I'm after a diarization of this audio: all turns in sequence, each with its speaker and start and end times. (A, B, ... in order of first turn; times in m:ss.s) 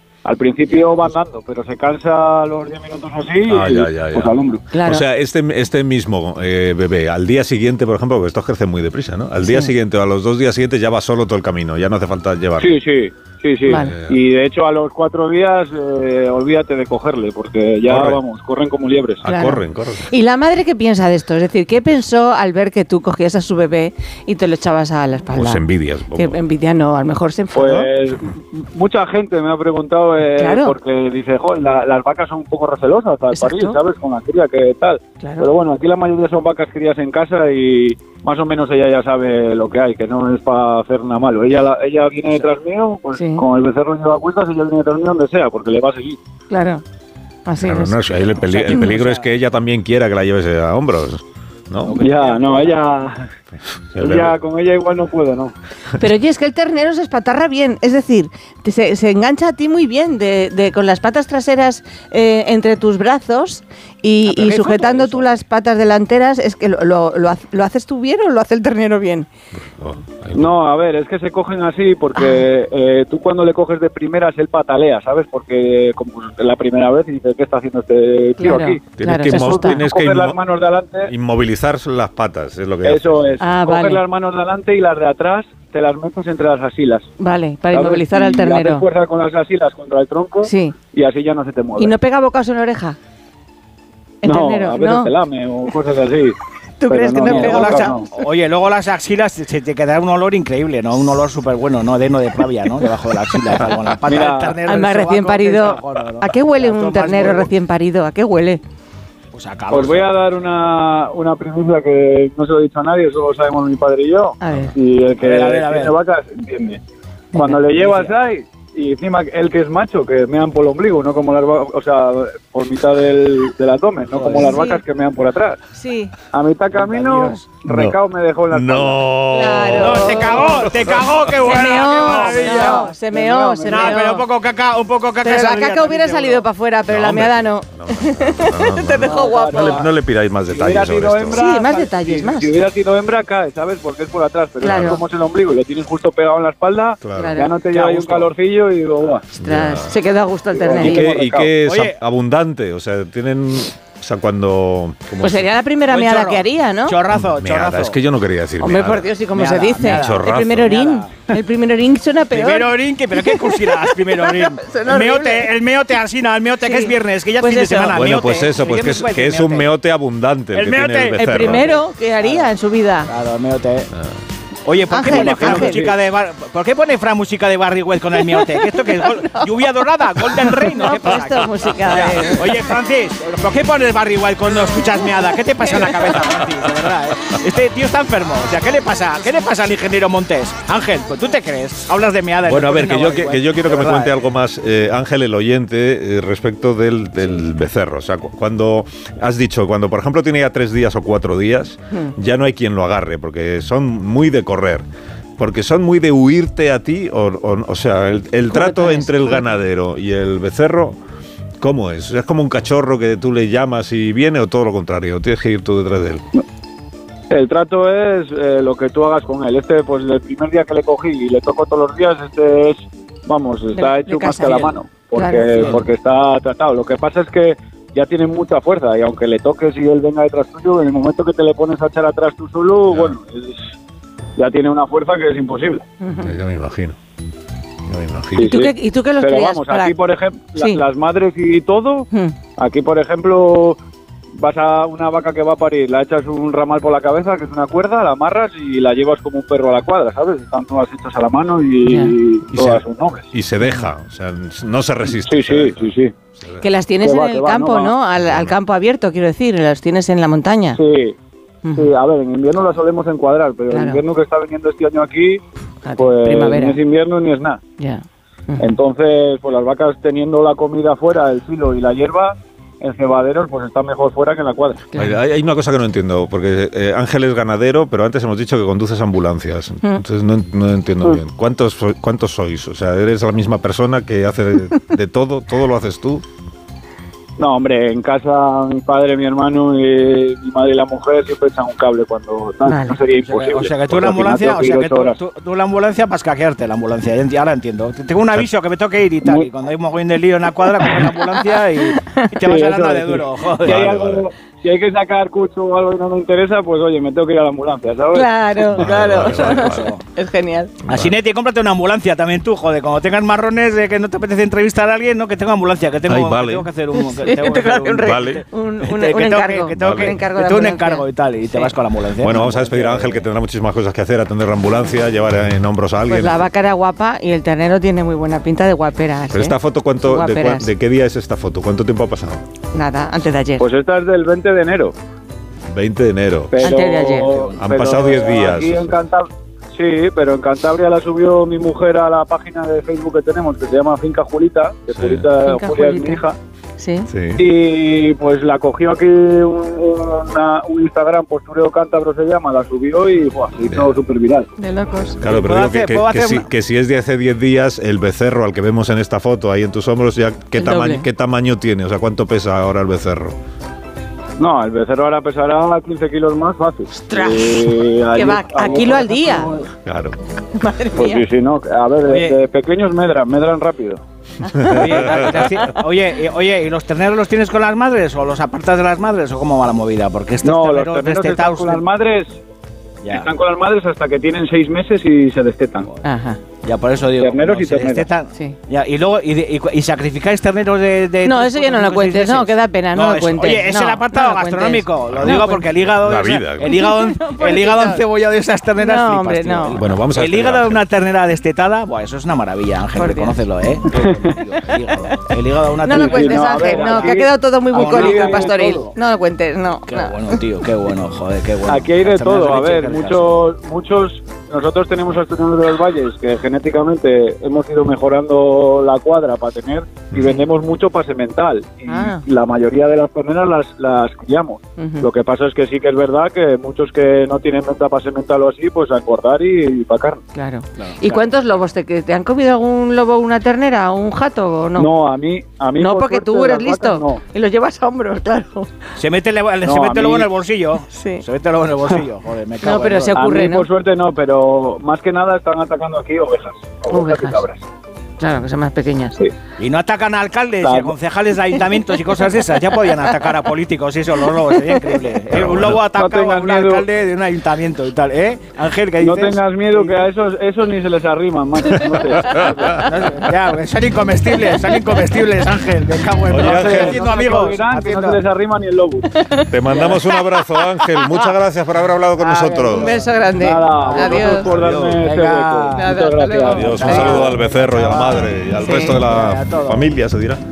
0:00.2-0:04.6 A
0:03.4-0:12.8 B
0:04.7-0:05.0 C
0:09.4-0:09.7 C
0:12.6-0:19.2 A
0:13.7-0:13.9 C
0:13.8-0:14.2 B
0:17.9-0:18.2 B
0:19.2-0:20.1 B
0:19.2-0:25.6 C
0:25.3-0:26.4 B
0:26.2-0:27.9 C
0:27.6-0:46.2 A
0:30.4-0:30.8 C
0:33.3-0:33.8 C
0:35.2-0:35.5 C
0:43.2-0:43.4 C
0:46.5-0:46.8 C
0:47.4-0:48.0 C
0:47.6-0:52.0 B
0:48.1-0:49.3 D
0:51.9-0:52.8 D
0:52.0-0:53.3 A
0:53.9-0:54.4 B
0:54.0-0:55.5 A
0:56.0-1:09.3 C
1:04.2-1:05.3 D
1:09.5-1:10.5 B
1:10.4-1:21.1 A
1:12.2-1:12.4 C
1:18.4-1:19.8 C
1:19.0-1:20.4 B
1:21.1-1:23.3 B
1:22.8-1:27.1 A
1:23.4-1:24.0 C
1:27.2-1:28.8 C
1:27.7-1:31.9 A
1:30.4-1:30.8 C
1:31.8-1:33.0 C
1:34.2-1:35.1 C
1:34.2-1:36.4 A
1:36.8-1:38.1 C
1:36.9-1:38.1 A
1:37.2-1:47.5 D
1:44.1-1:44.6 A
1:44.7-1:48.6 C
1:49.3-1:50.2 D
1:49.7-1:56.8 A
1:54.4-1:54.7 C
1:55.2-1:55.9 D
1:57.3-2:05.6 A
1:57.7-1:58.1 D
2:04.1-2:04.5 D
2:04.4-2:04.8 C
2:05.7-2:06.1 C
2:06.3-2:09.0 A
2:06.7-2:07.4 D
2:07.7-2:08.0 B
2:08.5-2:11.4 B
2:09.3-2:10.6 C
2:09.7-2:12.9 D
2:11.4-2:14.2 C
2:11.7-2:14.0 A
2:13.7-2:16.4 D
2:15.2-2:19.8 C
2:16.9-2:21.4 B
2:19.0-2:19.9 A
2:20.5-2:29.3 A
2:21.3-2:22.5 C
2:24.6-2:25.0 C
2:24.7-2:25.0 B
2:27.0-2:27.4 B
2:27.2-2:27.5 C
2:27.7-2:28.3 D
2:29.4-2:31.1 C
2:29.4-2:29.9 B
2:30.5-2:31.5 A
2:30.8-2:35.5 B
2:31.6-2:32.0 D
2:35.2-2:37.0 C
2:35.9-2:38.0 D
2:37.1-2:39.1 B
2:38.6-2:45.5 C
2:39.3-2:41.1 D
2:39.9-2:40.8 B
2:42.3-2:49.7 D
2:46.6-2:48.0 C
2:47.9-2:51.7 B
2:50.5-2:52.5 D
2:51.2-2:53.1 C
2:53.1-2:53.9 D
2:54.7-3:14.2 D
2:54.9-2:55.9 C
2:55.1-2:55.9 A
2:58.3-2:59.4 C
3:00.4-3:02.6 C
3:05.7-3:06.0 C
3:12.4-3:24.8 B
3:25.4-3:31.0 B
3:28.5-3:29.4 C
3:31.6-3:36.2 B
3:37.3-3:53.6 A
3:43.7-3:45.7 C
3:45.6-3:45.8 D
3:52.9-3:53.2 B
3:54.4-3:55.8 A
3:56.0-3:56.3 C
3:56.2-3:57.0 B
3:57.9-3:58.7 B
3:58.4-4:03.8 A
3:58.5-4:00.0 C
4:00.6-4:00.8 C
4:04.4-4:13.2 A
4:11.8-4:12.2 C
4:12.5-4:16.7 B
4:15.2-4:16.1 A
4:16.6-4:20.8 C
4:17.0-4:17.9 A
4:18.2-4:18.6 B
4:20.8-4:21.2 A
4:21.6-4:21.9 C
4:21.8-4:25.4 A
4:23.7-4:24.0 C
4:25.8-4:26.8 C
4:26.0-4:27.6 A
4:27.8-4:28.7 C
4:28.6-4:34.8 A
4:34.9-4:35.2 C
4:35.0-4:46.2 B
4:47.4-4:55.2 A
4:52.7-4:53.0 C
4:53.3-5:03.8 D
5:02.0-5:02.3 C
5:02.4-5:08.8 A
5:03.6-5:04.2 B
5:08.1-5:10.7 C
5:08.7-5:09.9 B
5:09.3-5:10.0 D
5:10.8-5:11.1 B
5:10.9-5:23.2 D
5:16.1-5:16.7 B
5:17.0-5:21.7 C
5:18.0-5:18.4 B
5:19.8-5:20.2 B
5:22.2-5:26.5 B
5:26.1-5:30.7 C
5:29.3-5:32.4 B
5:32.7-5:33.6 C
5:33.6-5:34.9 A
5:35.7-5:36.8 B
5:36.5-5:46.3 A
5:36.6-5:37.4 C
5:37.6-5:39.0 B
5:44.9-5:45.3 B
5:45.4-5:46.2 C
5:46.8-5:47.1 C
5:47.1-5:47.5 B
5:47.4-5:54.5 A
5:53.6-5:54.0 B
5:54.6-5:55.2 C
5:55.2-6:03.4 B
5:55.2-5:56.5 D
6:00.6-6:01.1 C
6:04.4-6:09.7 A
6:07.1-6:09.5 C
6:09.8-6:10.2 B
6:10.6-6:11.2 C
6:11.0-6:14.0 A
6:12.1-6:12.4 D
6:14.4-6:15.7 C
6:14.6-6:15.5 B
6:14.7-6:21.8 D
6:20.4-6:22.4 A
6:23.0-6:23.3 D
6:23.1-6:25.9 A
6:26.0-6:26.4 C
6:26.6-6:47.2 D
6:27.2-6:28.1 A
6:31.2-6:35.7 C
6:35.1-6:35.5 B
6:36.0-6:36.8 B
6:36.6-6:38.0 C
6:38.8-6:39.8 C
6:39.8-6:40.8 B
6:43.0-6:43.3 C
6:45.8-6:50.2 C
6:45.9-6:48.8 A
6:47.7-6:48.9 D
6:49.9-6:53.4 D
6:51.7-7:10.2 A
7:00.1-7:00.4 B
7:01.9-7:02.2 C
7:04.8-7:05.1 C
7:10.3-7:14.9 C
7:10.8-7:11.2 D
7:14.8-7:17.2 A
7:15.8-7:18.7 C
7:19.0-7:23.2 D
7:19.6-7:20.3 A
7:20.9-7:21.2 C
7:22.6-7:23.7 C
7:23.2-7:27.6 A
7:26.9-7:27.4 C
7:28.2-7:29.2 C
7:29.6-7:40.0 D
7:30.6-7:30.9 A
7:35.3-7:35.8 B
7:35.9-7:36.8 A
7:39.0-7:42.8 A
7:42.3-7:42.8 B
7:42.8-7:48.2 D
7:46.3-7:47.0 B
7:46.3-7:49.1 A
7:49.2-7:49.5 C
7:49.5-7:53.0 B
7:49.7-7:50.0 D
7:52.2-7:53.1 D
7:52.7-7:54.5 C
7:53.4-7:57.3 A
7:53.8-7:59.9 D
7:54.2-7:55.0 B
7:55.8-7:57.3 C
7:56.4-8:00.4 B
7:58.6-7:59.0 C